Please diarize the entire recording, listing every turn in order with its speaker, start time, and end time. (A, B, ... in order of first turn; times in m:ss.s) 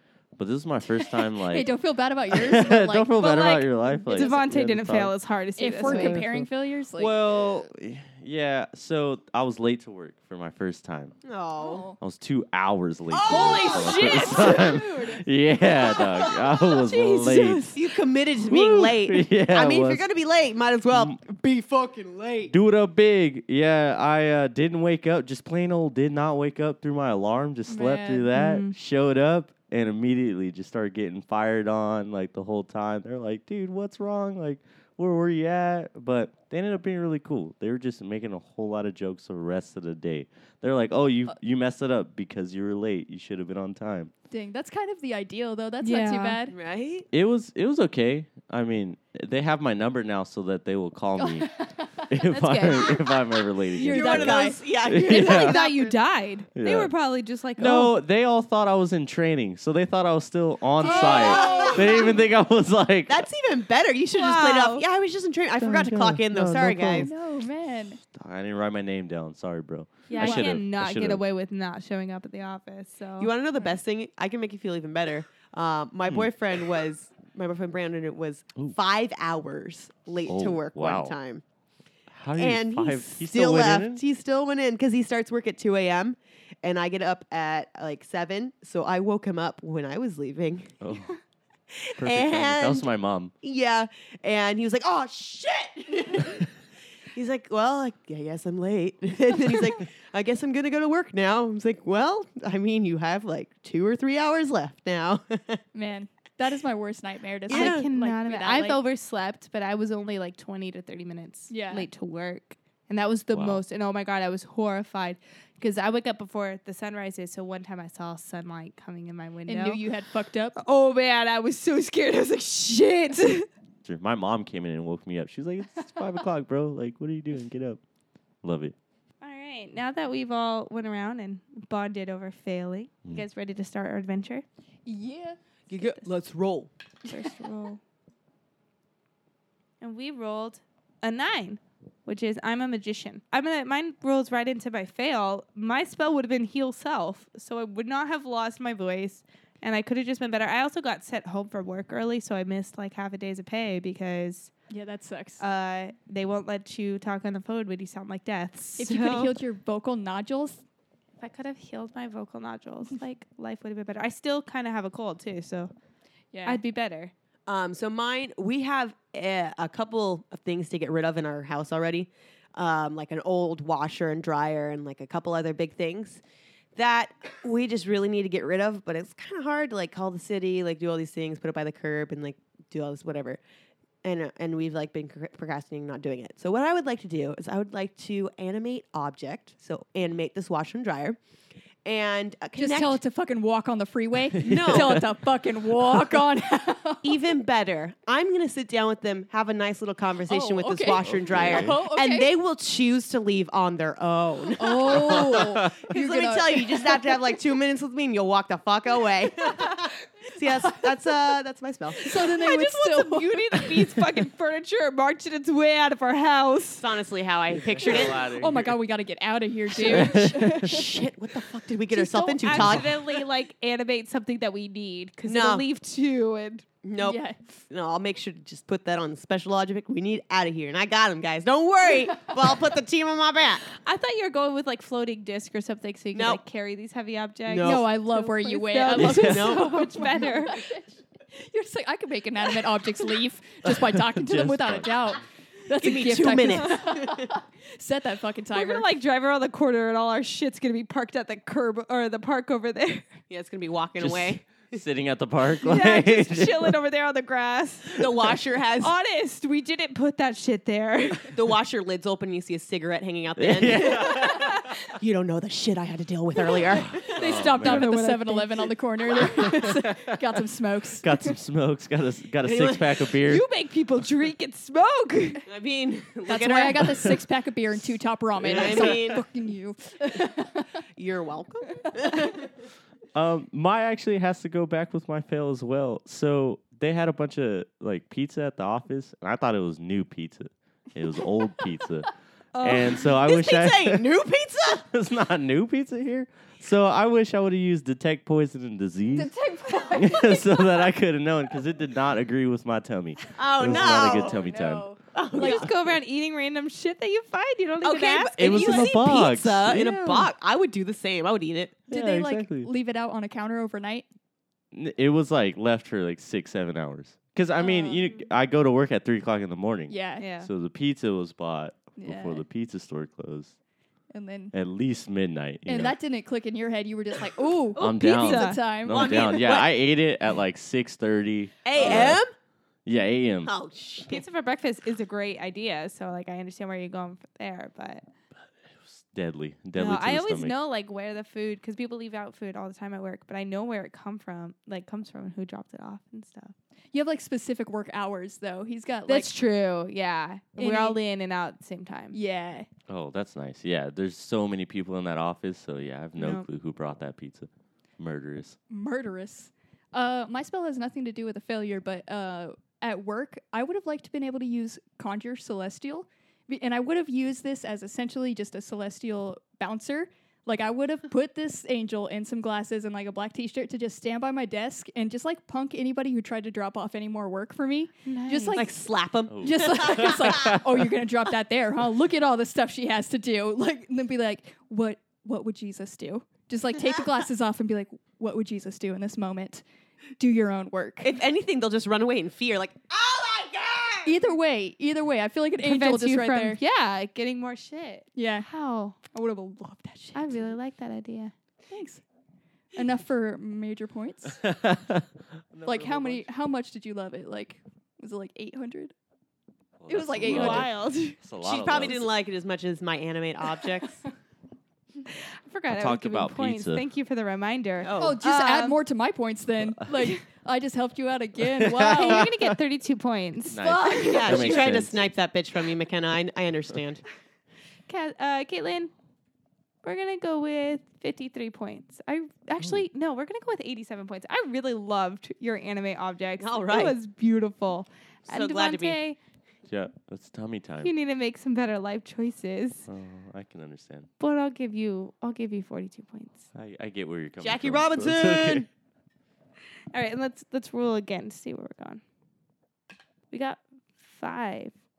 0:00.4-0:01.7 A
0:01.4-0:03.1 B
0:02.3-0:05.1 A
0:03.2-0:06.2 C
0:04.1-0:04.4 B
0:05.6-0:07.1 B
0:05.8-0:11.2 A
0:11.2-0:11.9 D
0:11.6-0:12.0 B
0:12.0-0:17.6 A
0:13.1-0:14.3 D
0:13.2-0:14.7 C
0:13.4-0:15.2 B
0:15.9-0:17.8 C
0:17.7-0:22.5 D
0:18.5-0:20.0 A
0:20.9-0:21.2 A
0:22.5-0:44.1 A
0:27.7-0:28.3 B
0:28.3-0:28.7 C
0:44.3-0:46.5 B
0:45.8-0:46.4 C
0:46.5-0:47.1 D
0:47.1-0:55.6 A
0:51.2-0:52.1 B
0:52.2-0:53.0 C
0:53.7-0:54.6 B
0:53.8-0:55.9 D
0:55.0-0:57.9 C
0:56.6-0:56.9 A
0:57.6-1:03.3 A
1:00.8-1:02.2 B
1:00.8-1:01.9 C
1:01.0-1:02.1 D
1:03.1-1:07.1 D
1:04.1-1:04.8 C
1:05.6-1:07.1 A
1:06.9-1:08.0 B
1:08.1-1:11.2 A
1:10.1-1:10.5 B
1:10.1-1:13.3 C
1:13.2-1:21.4 D
1:20.2-1:21.2 A
1:22.1-1:24.0 A
1:22.4-1:30.7 D
1:30.8-1:31.2 A
1:31.7-1:32.8 D
1:32.0-1:33.3 A
1:33.4-1:36.5 D
1:37.1-1:45.6 D
1:45.7-1:48.8 B
1:47.5-1:47.8 D
1:47.5-1:59.8 C
1:51.5-1:51.9 B
1:53.3-1:53.6 A
1:59.5-2:00.6 B
2:00.6-2:03.5 C
2:03.8-2:07.8 A
2:08.4-2:08.7 A
2:09.2-2:14.4 C
2:14.8-2:15.4 B
2:15.7-2:16.7 D
2:15.8-2:16.0 C
2:17.1-2:17.8 C
2:19.8-2:34.5 C
2:34.7-2:35.4 B
2:35.4-2:39.3 C
2:38.8-2:40.6 B
2:41.2-2:45.7 C
2:46.3-2:46.6 B
2:46.4-2:47.1 C
2:47.5-2:56.2 D
2:56.8-3:03.4 D
3:04.0-3:11.2 D
3:11.8-3:13.0 D
3:12.6-3:17.2 B
3:14.4-3:15.0 A
3:14.4-3:15.0 D
3:17.0-3:32.0 D
3:20.3-3:22.3 B
3:21.0-3:21.8 A
3:24.6-3:27.1 B
3:25.0-3:25.7 A
3:31.9-3:33.7 B
3:32.1-3:36.9 C
3:36.8-3:38.2 D
3:37.5-3:38.8 A
3:37.8-3:40.9 B
3:39.8-3:43.2 D
3:39.9-3:40.7 A
3:41.9-3:42.5 B
3:42.4-3:46.6 C
3:42.5-3:42.8 A
3:45.3-3:45.6 D
3:46.8-3:53.7 D
3:47.0-3:47.4 B
3:53.8-4:00.6 C
3:56.1-3:56.4 D
3:57.5-3:57.8 D
3:57.6-4:08.9 B
3:59.0-3:59.5 A
3:59.1-4:00.3 D
4:03.6-4:04.9 A
4:05.8-4:07.3 D
4:06.5-4:07.0 C
4:08.5-4:13.1 C
4:13.3-4:14.8 D
4:14.0-4:16.8 A
4:15.6-4:18.1 C
4:18.0-4:18.9 D
4:18.8-4:21.3 C
4:21.3-4:27.1 D
4:23.4-4:24.9 A
4:23.9-4:24.7 C
4:26.8-4:27.9 A
4:27.0-4:31.3 B
4:27.2-4:28.6 C
4:29.4-4:30.2 A
4:31.0-4:33.4 A
4:32.4-4:33.0 D
4:33.2-4:35.4 C
4:35.4-4:37.2 D
4:36.3-4:40.7 B
4:38.4-4:39.2 D
4:38.4-4:39.0 A
4:41.0-4:42.5 D
4:43.1-4:54.0 A
4:52.5-4:53.0 C
4:53.0-4:54.8 D
4:54.7-4:59.3 A
4:59.1-5:00.9 B
4:59.9-5:04.9 A
5:03.4-5:04.4 D
5:03.6-5:05.0 B
5:05.1-5:05.7 D
5:05.3-5:08.9 C
5:07.8-5:11.8 D
5:08.4-5:10.1 A
5:11.9-5:14.0 B
5:11.9-5:12.7 A
5:14.7-5:23.5 A
5:17.7-5:18.2 C
5:19.9-5:20.3 B
5:20.2-5:20.5 C
5:22.0-5:22.4 B
5:24.1-5:24.5 B
5:24.5-5:25.9 A
5:25.6-5:29.1 B
5:27.8-5:32.2 A
5:27.8-5:28.6 C
5:28.9-5:29.7 D
5:31.6-5:32.3 D
5:32.8-5:33.5 A
5:33.4-5:34.2 D
5:34.1-5:38.0 C
5:38.8-5:40.5 A
5:39.7-5:46.5 C
5:46.9-5:49.3 B
5:49.1-5:52.2 C
5:50.6-5:51.0 B
5:52.1-5:52.7 B
5:52.9-5:58.6 A
5:56.2-5:56.5 C
5:58.7-6:18.7 B
6:18.0-6:18.6 C
6:18.5-6:20.5 D
6:19.3-6:20.8 A
6:19.4-6:29.6 B
6:30.2-6:31.1 B
6:31.0-6:34.2 D
6:34.0-6:36.6 B
6:35.6-6:39.0 C
6:38.2-6:38.5 B
6:39.0-6:40.4 B
6:40.1-6:41.3 C
6:41.7-6:42.0 B
6:42.7-6:44.4 B
6:44.4-6:46.3 A
6:45.6-6:48.9 B
6:49.8-6:52.1 A
6:49.9-6:50.7 B
6:50.2-6:51.2 C
6:51.4-6:54.0 D
6:55.1-6:58.8 C
6:55.7-6:56.8 A
6:57.8-6:58.2 D
6:58.0-7:02.3 B
6:59.8-7:00.1 A
7:01.5-7:02.6 A
7:01.8-7:03.6 C
7:03.5-7:05.1 A
7:03.5-7:04.8 B
7:03.8-7:07.0 D
7:07.9-7:08.9 C
7:09.8-7:19.2 C
7:16.4-7:17.0 D
7:18.3-7:19.0 D
7:19.7-7:20.9 A
7:20.8-7:22.9 C
7:22.9-7:24.1 A
7:24.2-7:26.5 C
7:26.5-7:28.6 A
7:27.4-7:28.7 D
7:29.9-7:32.0 C
7:33.3-7:34.7 C